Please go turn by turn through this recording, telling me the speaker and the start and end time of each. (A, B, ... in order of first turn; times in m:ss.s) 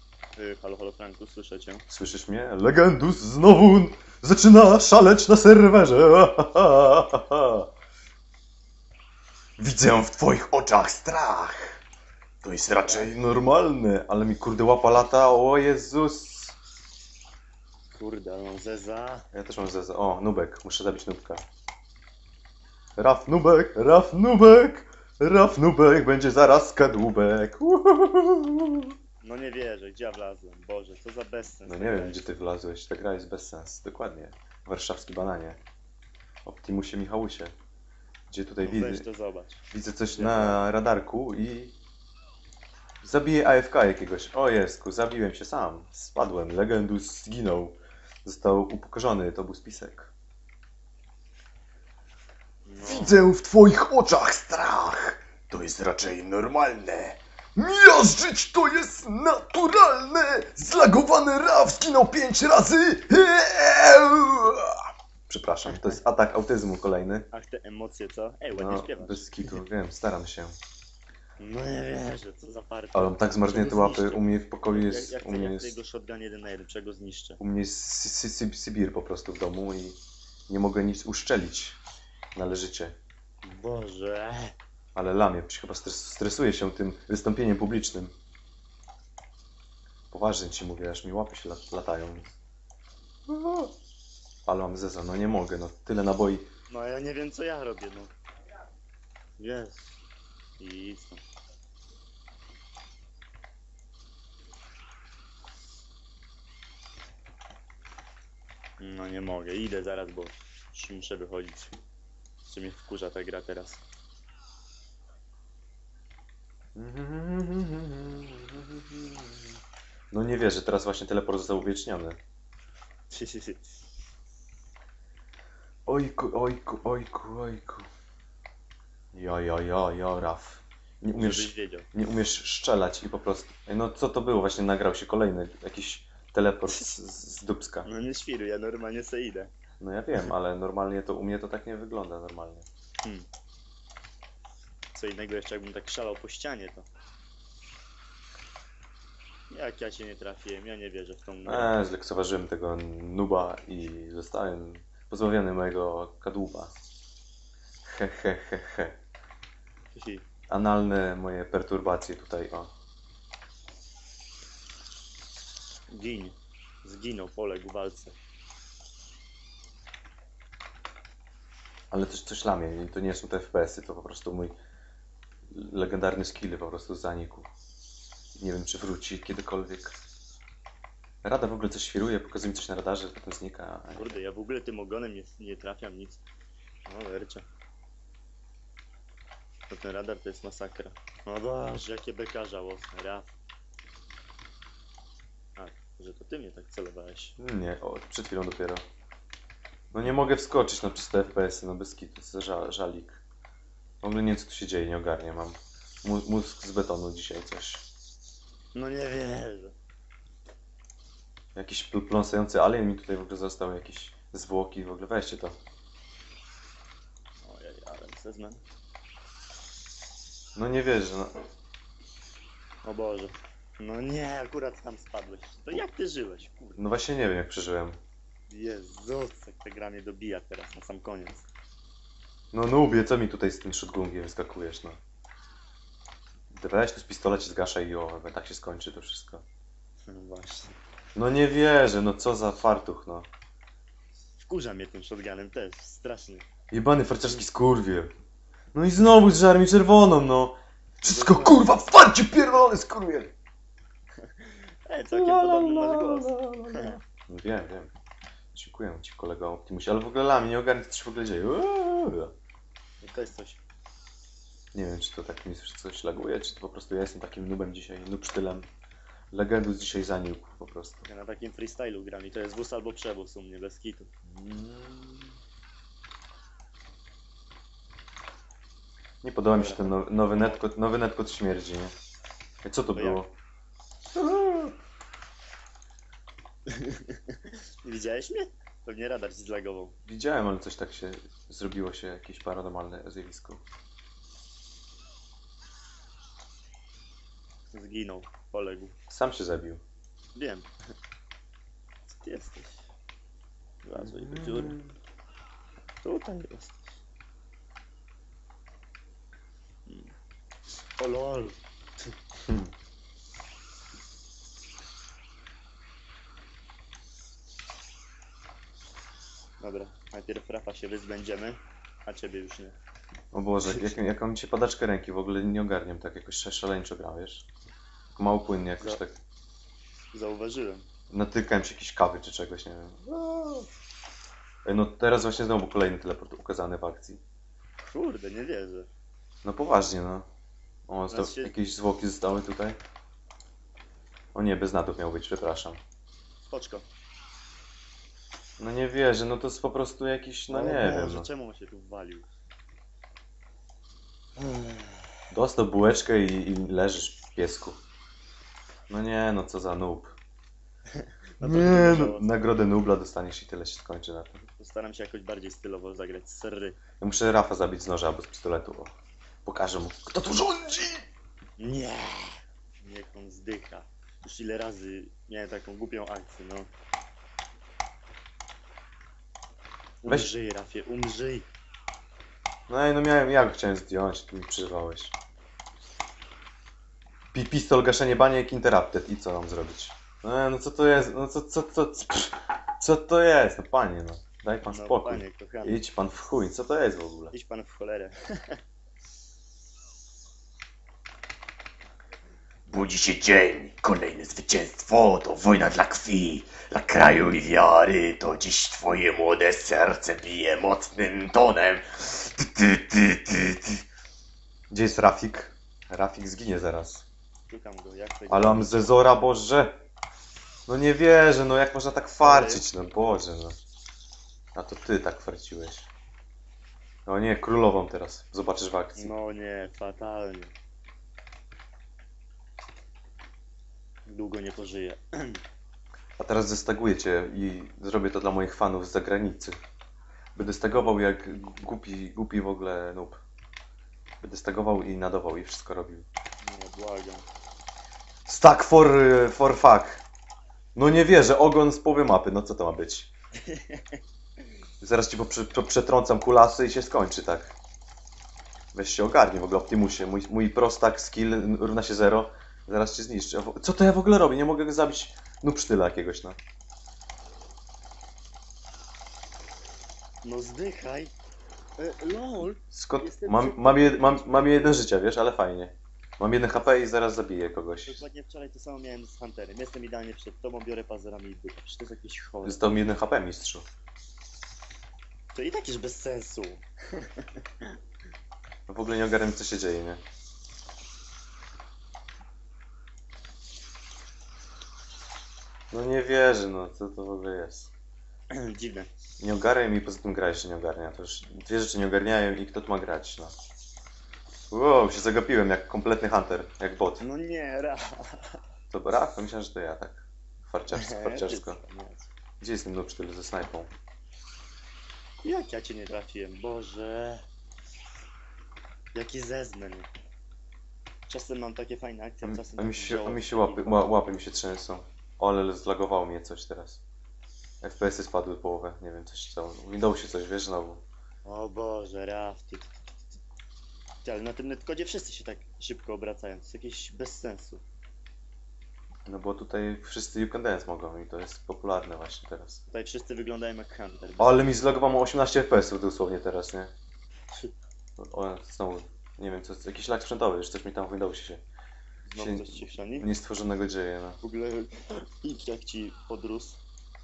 0:00.4-0:01.8 A
0:01.9-0:07.7 B
0:09.6-0:11.8 B
0:12.4-0:16.6 B
0:12.8-0:13.2 A
0:17.9-0:19.3 A
0:19.3-0:21.4 B
0:23.0-0:28.9 B
0:29.2-0:32.3 A
0:31.6-0:35.6 B
0:36.4-0:37.5 B
0:38.3-0:39.0 B
0:38.6-0:40.7 A
0:39.7-0:41.7 B
0:43.0-0:50.1 B
0:52.6-0:53.3 A
0:52.8-1:07.3 B
1:07.3-1:09.3 A
1:08.5-1:10.6 B
1:11.4-1:17.4 A
1:12.9-1:15.7 B
1:17.4-1:20.0 B
1:20.5-1:21.8 B
1:22.3-1:22.9 B
1:23.4-1:24.5 A
1:24.9-1:28.1 B
1:30.1-1:32.4 B
1:33.3-1:33.7 B
1:34.4-1:36.5 B
1:36.7-1:38.1 A
1:39.4-1:39.9 A
1:40.6-1:41.2 A
1:48.8-1:51.8 A
1:52.4-1:53.8 A
1:56.8-1:59.6 B
2:00.1-2:02.2 B
2:03.1-2:03.6 A
2:05.8-2:07.9 B
2:09.1-2:17.9 B
2:11.2-2:11.9 A
2:17.8-2:19.5 A
2:19.8-2:22.7 B
2:24.9-2:26.9 A
2:29.5-2:31.8 A
2:31.4-2:36.7 B
2:37.8-2:39.0 B
2:39.9-2:40.2 A
2:40.5-2:42.7 B
2:45.9-2:48.1 A
2:51.9-2:54.5 B
2:55.5-2:57.5 B
2:58.3-3:00.0 B
3:01.2-3:04.2 B
3:03.9-3:06.2 A
3:06.8-3:07.4 A
3:09.7-3:13.3 A
3:15.6-3:17.4 A
3:17.4-3:18.8 B
3:19.9-3:23.2 B
3:24.0-3:27.8 B
3:28.7-3:29.7 A
3:31.5-3:35.6 B
3:37.4-3:38.6 A
3:40.6-3:41.4 B
3:42.8-3:46.8 A
3:46.8-3:48.0 B
3:48.5-3:51.5 A
3:52.5-3:55.0 B
3:56.5-3:59.4 B
4:00.1-4:00.7 A
4:01.2-4:03.3 B
4:04.4-4:06.5 A
4:06.7-4:08.1 B
4:08.7-4:13.3 B
4:11.0-4:11.7 A
4:14.2-4:17.0 A
4:15.1-4:17.9 B
4:18.5-4:22.3 B
4:23.0-4:23.6 A
4:24.7-4:28.6 B
4:29.3-4:31.1 B
4:31.0-4:34.1 A
4:34.3-4:35.3 B
4:39.2-4:41.9 B
4:39.5-4:40.6 A
4:42.6-4:43.3 B
4:42.9-4:43.2 A
4:44.1-4:44.7 B
4:46.7-4:50.0 A
4:50.1-4:53.6 B
4:57.7-4:58.9 A
4:59.1-4:59.8 B
5:00.3-5:00.7 A
5:02.1-5:02.9 A
5:03.8-5:04.8 A
5:04.0-5:04.9 B
5:06.0-5:06.9 A
5:09.8-5:10.1 A
5:11.0-5:11.6 A
5:19.6-5:22.8 A
5:23.3-5:27.4 B
5:23.6-5:23.9 A
5:28.1-5:29.2 B
5:30.1-5:30.8 A
5:31.1-5:33.7 B
5:34.6-5:37.2 B
5:37.8-5:38.9 A
5:39.4-5:40.2 B
5:40.9-5:42.8 B
5:41.1-5:41.5 A
5:44.3-5:45.8 B
5:46.4-5:46.8 A
5:48.6-5:51.3 B
5:50.5-5:52.3 A
5:54.4-5:55.1 A
5:55.3-5:57.8 B
5:58.9-6:00.2 B
6:00.9-6:02.4 A
6:01.4-6:04.4 B
6:04.6-6:06.8 A
6:07.0-6:08.9 B
6:09.4-6:11.0 B
6:11.6-6:16.7 A
6:20.0-6:21.4 A
6:22.7-6:25.1 B
6:27.3-6:37.3 B
6:34.7-6:35.8 A
6:37.3-6:38.6 A
6:42.7-6:53.7 C
6:54.7-6:57.0 B
6:57.5-6:58.9 A
6:58.3-6:59.8 B
7:00.7-7:03.6 B
7:02.2-7:02.6 A
7:04.5-7:05.9 B
7:07.0-7:09.1 B
7:09.0-7:10.5 A
7:14.0-7:15.4 A
7:16.2-7:19.6 B
7:20.3-7:23.2 B
7:24.2-7:26.0 B
7:26.4-7:27.2 A
7:28.3-7:30.0 B
7:30.7-7:33.1 B
7:33.4-7:34.0 A
7:34.8-7:37.6 B
7:38.7-7:46.4 B
7:50.2-7:51.1 A
7:51.8-7:54.8 A
7:52.7-7:58.0 B
7:57.8-8:02.8 A
8:02.4-8:03.6 B
8:05.3-8:07.7 A
8:08.7-8:10.0 B
8:15.7-8:17.7 B
8:18.3-8:18.9 A
8:19.2-8:23.3 B
8:24.5-8:27.0 B
8:27.0-8:28.4 A
8:28.7-8:31.6 B
8:30.7-8:32.1 A
8:32.4-8:33.7 B
8:35.2-8:37.2 A
8:38.9-8:39.9 A
8:41.1-8:43.9 A
8:42.2-8:46.8 B
8:47.6-8:50.8 B
8:51.2-8:52.8 A
8:54.0-8:57.6 A
8:59.0-9:02.6 B
9:02.7-9:04.5 A
9:04.2-9:06.7 B
9:08.0-9:11.4 B
9:12.0-9:13.1 A
9:12.2-9:14.2 B
9:14.2-9:16.6 A